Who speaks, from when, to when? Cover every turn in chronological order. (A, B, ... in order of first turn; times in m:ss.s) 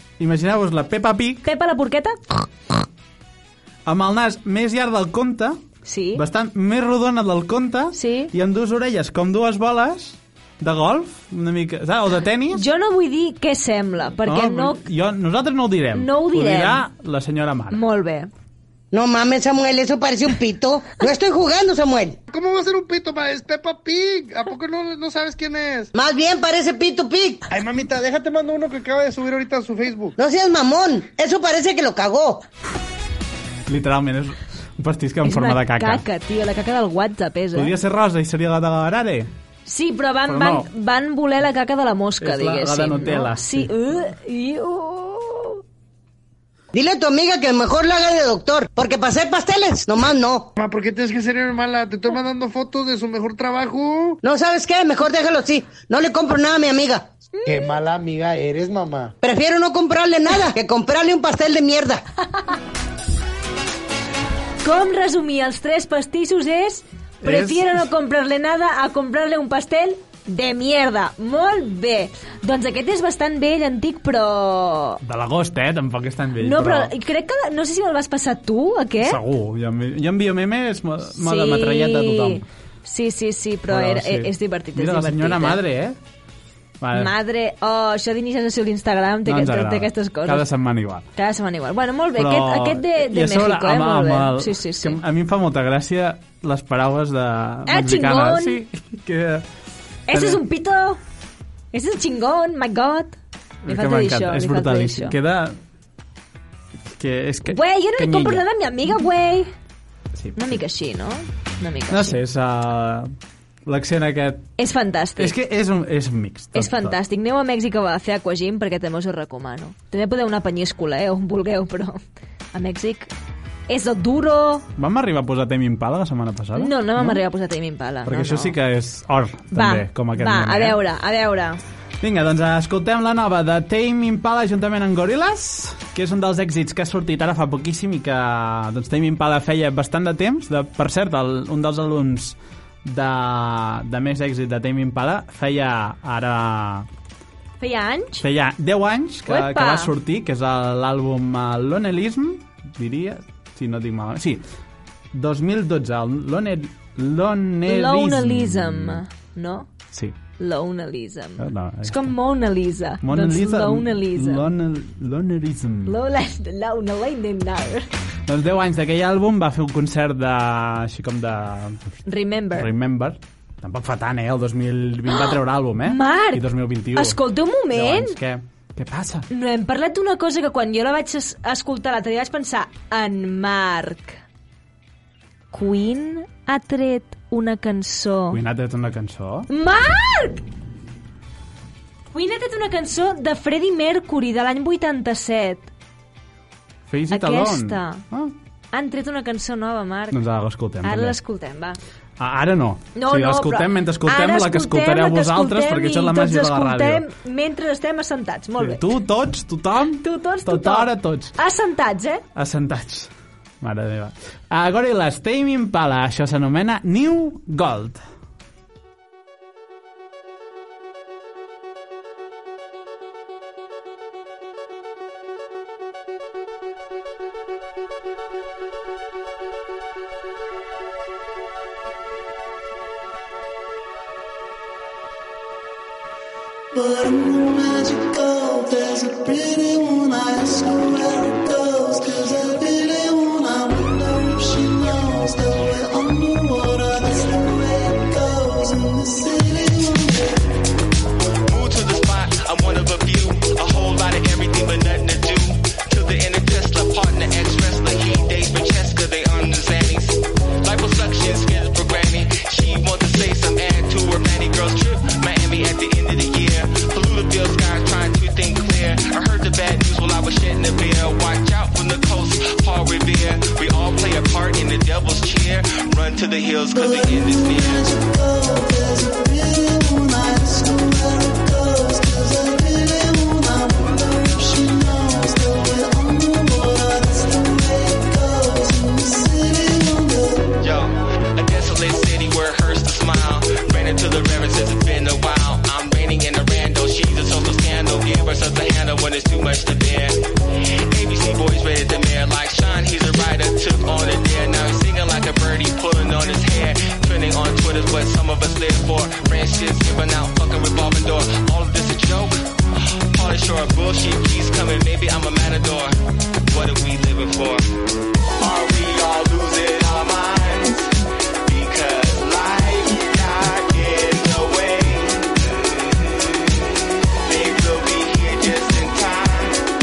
0:00.2-0:01.4 A
0:01.4-0:02.5 B
0:03.8-0:05.6 A
0:05.8-0:06.2 B
0:06.1-0:12.6 A
0:07.9-0:08.3 B
0:12.5-0:14.8 B
0:14.2-0:17.8 A
0:15.9-0:16.8 B
0:17.7-0:18.3 B
0:18.9-0:22.2 C
0:22.3-0:25.9 D
0:25.9-0:27.4 C
0:27.5-0:30.2 D
0:30.2-0:32.4 C
0:33.7-0:36.0 A
0:35.2-0:37.7 B
0:37.5-0:39.3 A
0:39.6-0:45.6 B
0:40.3-0:40.7 A
0:42.2-0:43.7 A
0:46.7-0:50.5 C
0:50.6-0:54.2 D
0:54.2-0:57.1 C
0:57.4-0:57.7 B
0:57.4-0:59.1 D
0:59.2-1:02.0 C
1:04.6-1:15.0 B
1:07.2-1:07.8 A
1:15.0-1:16.9 A
1:16.4-1:19.2 B
1:19.0-1:22.4 A
1:21.2-1:25.6 B
1:23.7-1:26.0 A
1:26.8-1:27.1 A
1:26.9-1:30.5 B
1:29.2-1:31.1 A
1:31.1-1:35.0 B
1:32.1-1:39.5 A
1:37.6-1:38.6 B
1:40.1-1:41.0 B
1:40.1-1:40.4 A
1:41.7-1:45.2 B
1:43.6-1:45.6 A
1:46.9-1:48.4 A
1:47.4-1:49.5 B
1:50.1-1:50.6 A
1:50.3-1:52.2 B
1:51.9-1:53.1 A
1:53.6-1:54.5 A
1:54.6-1:55.3 B
1:55.2-1:57.0 A
1:56.5-2:02.0 B
2:02.5-2:03.1 B
2:03.7-2:04.6 B
2:04.7-2:07.2 A
2:06.6-2:08.6 B
2:08.0-2:10.8 A
2:09.5-2:11.6 B
2:12.0-2:26.9 A
2:27.6-2:28.2 B
2:28.2-2:34.4 A
2:29.2-2:29.9 B
2:35.1-2:39.0 A
2:37.6-2:39.7 B
2:40.4-2:44.4 B
2:41.4-2:42.1 A
2:43.0-2:46.0 A
2:45.8-2:47.9 B
2:48.2-2:51.9 A
2:52.0-2:52.7 B
2:52.5-2:59.3 A
2:55.8-2:58.2 B
2:59.3-3:04.2 B
3:05.5-3:08.4 B
3:08.3-3:09.5 A
3:09.5-3:10.4 B
3:12.1-3:15.7 B
3:16.9-3:18.3 A
3:17.1-3:18.0 B
3:18.7-3:20.2 B
3:20.1-3:21.2 A
3:20.8-3:21.8 B
3:22.2-3:27.0 A
3:22.9-3:28.9 B
3:28.6-3:31.3 A
3:30.0-3:32.2 B
3:32.3-3:38.0 A
3:56.7-4:10.5 E
4:11.4-4:37.8 F
4:36.7-4:50.5 E
4:50.6-5:00.2 F
5:00.9-5:12.4 F
5:13.1-5:15.9 F
5:16.5-5:17.6 F
5:18.4-5:20.9 F
5:21.4-5:29.6 F